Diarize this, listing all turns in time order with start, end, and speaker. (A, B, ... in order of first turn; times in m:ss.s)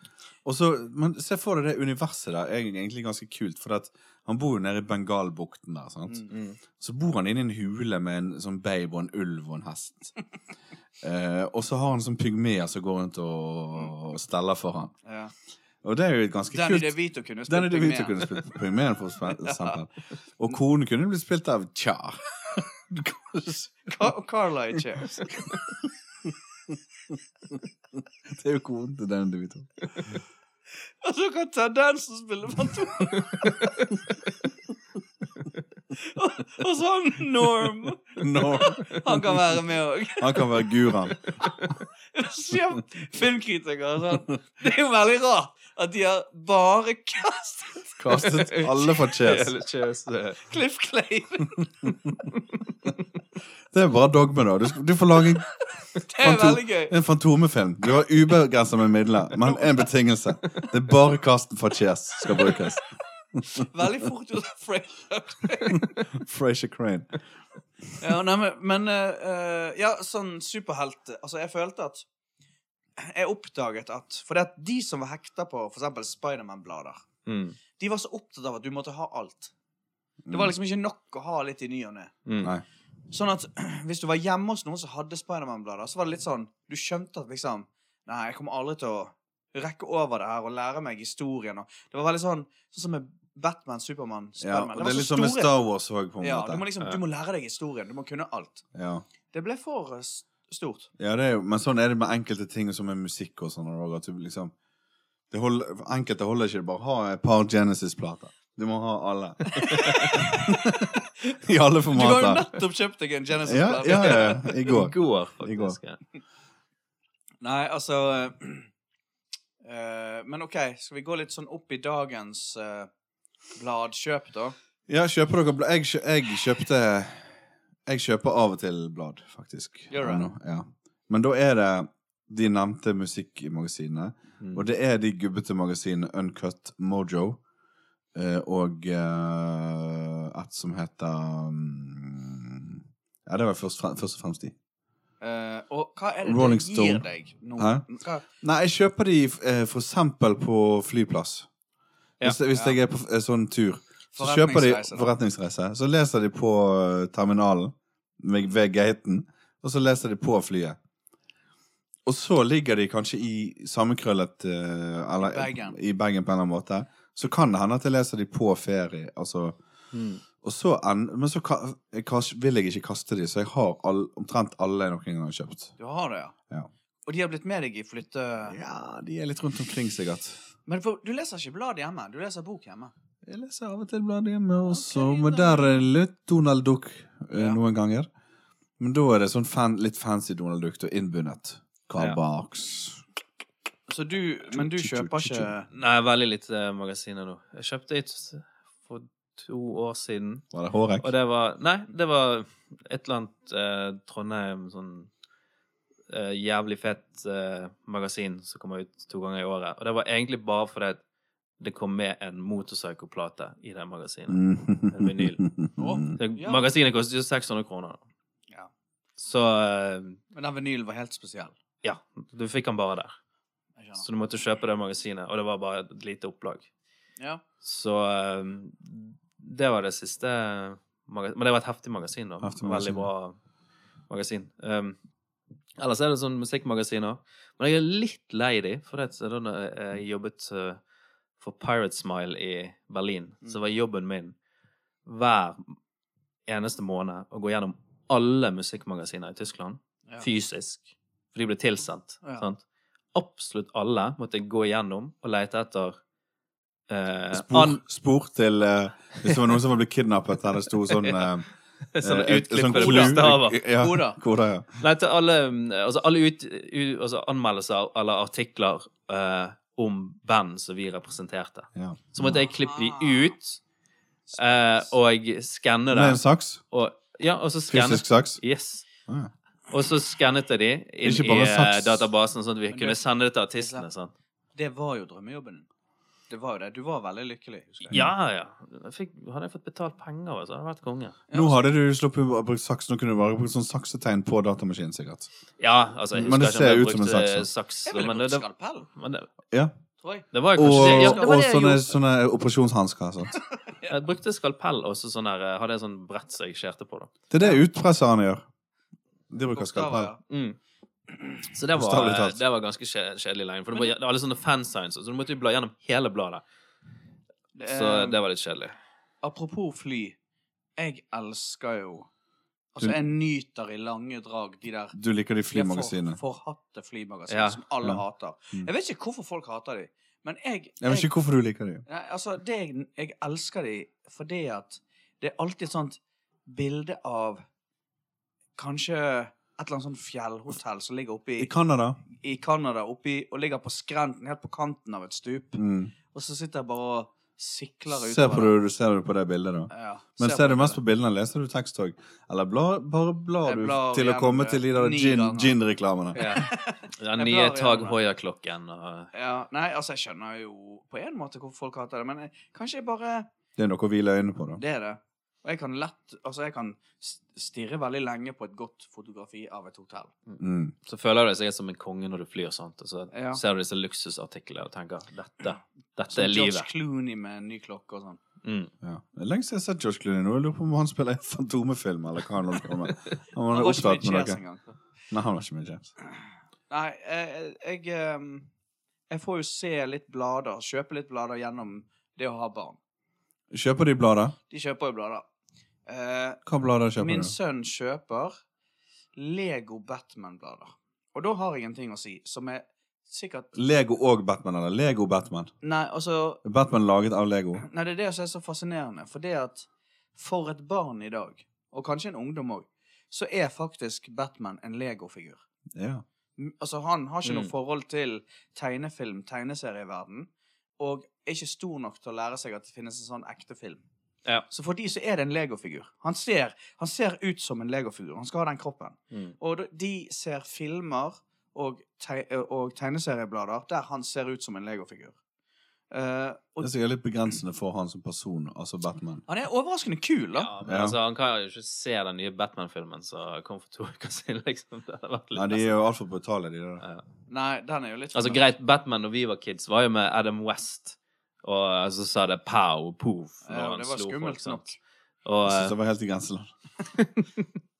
0:00.4-0:06.2 A
0:06.8-0:10.1 A
0:11.0-0:14.9 A
0:15.0-0:15.3 B
0:15.8-0:17.0 A
0:16.5-0:18.4 B
0:17.5-0:24.1 A
0:19.3-0:19.8 B
0:23.9-0:25.5 B
0:26.7-0:27.6 A
0:28.3-0:30.1 A
0:31.0-0:33.7 B
0:33.6-0:33.9 C
0:35.9-0:40.8 B
0:38.2-0:39.4 A
0:40.2-0:41.2 A
0:42.1-0:48.6 B
0:48.0-0:49.5 A
0:48.3-0:50.4 C
0:50.4-0:51.9 B
0:53.7-0:55.5 A
0:56.0-0:56.9 B
0:56.2-1:02.8 A
1:03.4-1:03.6 A
1:03.5-1:06.0 B
1:05.7-1:07.2 A
1:08.0-1:12.0 B
1:13.0-1:17.0 B
1:17.2-1:17.6 C
1:17.8-1:19.5 B
1:20.2-1:20.5 A
1:20.3-1:22.1 B
1:22.2-1:22.5 C
1:23.1-1:35.5 B
1:34.4-1:36.6 A
1:36.2-1:38.6 B
1:38.7-1:39.0 A
1:39.3-1:40.9 B
1:41.0-1:44.5 A
1:45.3-1:52.4 A
1:49.6-1:50.1 C
1:49.7-1:50.8 B
1:51.9-1:54.5 B
1:53.5-1:55.8 A
1:53.8-1:56.0 C
1:57.4-1:58.7 B
1:59.6-2:02.9 B
2:03.6-2:04.5 B
2:04.9-2:07.3 A
2:07.9-2:17.4 A
2:09.9-2:10.3 B
2:14.4-2:14.6 C
2:18.1-2:24.5 A
2:25.2-2:28.2 B
2:26.2-2:27.0 A
2:27.6-2:27.8 A
2:28.4-2:31.5 A
2:32.2-2:40.8 A
2:34.1-2:35.1 B
2:42.0-2:49.6 A
2:45.2-2:45.8 B
2:49.9-2:50.2 C
2:50.4-2:55.7 A
2:55.8-2:56.3 B
2:57.0-2:58.6 B
2:58.5-3:00.4 A
3:00.6-3:02.9 B
3:03.2-3:08.1 A
3:04.6-3:05.8 B
3:07.3-3:07.6 B
3:08.8-3:13.0 A
3:13.9-3:15.7 B
3:14.5-3:15.5 A
3:15.7-3:20.4 C
3:20.5-3:21.1 A
3:21.0-3:25.1 C
3:26.1-3:31.0 C
3:31.6-3:35.4 C
3:34.3-3:36.1 A
3:35.8-3:36.7 B
3:36.1-3:38.0 C
3:39.2-3:40.2 C
3:40.3-3:41.5 B
3:41.8-3:43.2 C
3:43.8-3:44.0 B
3:44.0-3:46.7 C
3:47.6-3:53.4 C
3:52.4-3:53.1 A
3:54.1-3:55.0 C
3:55.8-4:00.8 C
4:01.4-4:04.3 C
4:05.0-4:05.8 C
4:06.5-4:12.6 C
4:13.1-4:16.0 C
4:16.9-4:17.8 C
4:17.3-4:21.5 A
4:20.9-4:21.3 C
4:21.9-4:23.6 C
4:22.0-4:24.7 A
4:22.7-4:24.2 B
4:24.8-4:33.6 C
4:31.7-4:32.5 A
4:32.6-4:33.3 B
4:34.3-4:36.2 C
4:35.9-4:36.6 A
4:36.7-4:38.8 C
4:37.7-4:38.4 A
4:39.7-4:44.1 C
4:41.0-4:42.0 A
4:42.7-4:43.0 B
4:43.6-4:43.8 B
4:44.5-4:45.7 B
4:46.3-4:47.9 B
4:47.9-4:51.2 C
4:51.3-4:51.6 B
4:51.3-4:55.3 A
4:55.6-4:58.4 C
4:56.1-4:57.5 A
4:57.8-4:58.9 B
4:59.0-4:59.3 C
5:00.0-5:01.4 B
5:00.3-5:01.9 C
5:00.5-5:03.4 A
5:03.7-5:04.0 B
5:03.9-5:07.1 C
5:07.3-5:08.4 A
5:09.3-5:10.1 A
5:09.5-5:10.2 B
5:10.3-5:10.6 C
5:11.5-5:16.4 C
5:11.7-5:12.4 A
5:17.5-5:18.2 B
5:17.6-5:18.7 C
5:19.2-5:20.2 B
5:20.8-5:22.1 B
5:22.7-5:25.0 B
5:24.9-5:26.2 A
5:25.5-5:31.1 B
5:27.3-5:27.6 C
5:30.8-5:31.8 A
5:31.8-5:37.4 B
5:38.6-5:41.5 B
5:41.4-5:42.0 A
5:42.1-5:45.6 B
5:45.6-5:45.9 A
5:46.1-5:48.5 B
5:47.9-5:56.2 A
5:49.7-5:50.8 B
5:53.4-5:55.5 B
5:56.1-5:58.0 B
5:56.2-5:59.1 C
5:59.1-6:03.3 B
6:03.6-6:04.6 A
6:04.6-6:10.1 B
6:10.3-6:16.7 C
6:10.4-6:10.7 A
6:13.1-6:13.4 B
6:16.1-6:18.2 B
6:18.4-6:18.7 C
6:18.8-6:24.4 A
6:23.5-6:24.6 B
6:25.1-6:25.9 A
6:26.7-6:28.5 B
6:29.1-6:32.8 B
6:33.5-6:34.4 A
6:34.5-6:35.2 B
6:35.9-6:36.4 B
6:36.4-6:37.3 A
6:37.0-6:38.4 B
6:39.2-6:43.5 B
6:43.5-6:45.5 A
6:45.6-6:46.4 B
6:46.4-6:47.6 A
6:47.6-6:55.4 B
6:55.7-6:56.0 A
6:56.4-7:00.3 B
6:57.2-6:57.5 C
7:00.8-7:03.8 B
7:04.5-7:15.2 B
7:09.1-7:09.4 C
7:15.9-7:16.7 B
7:16.6-7:19.2 A
7:19.3-7:20.5 B
7:20.4-7:25.7 C
7:20.6-7:21.0 A
7:25.3-7:26.8 A
7:27.3-7:28.4 B
7:28.1-7:34.7 C
7:33.4-7:34.8 B
7:35.2-7:35.7 C
7:35.4-7:36.5 A
7:36.9-7:37.4 C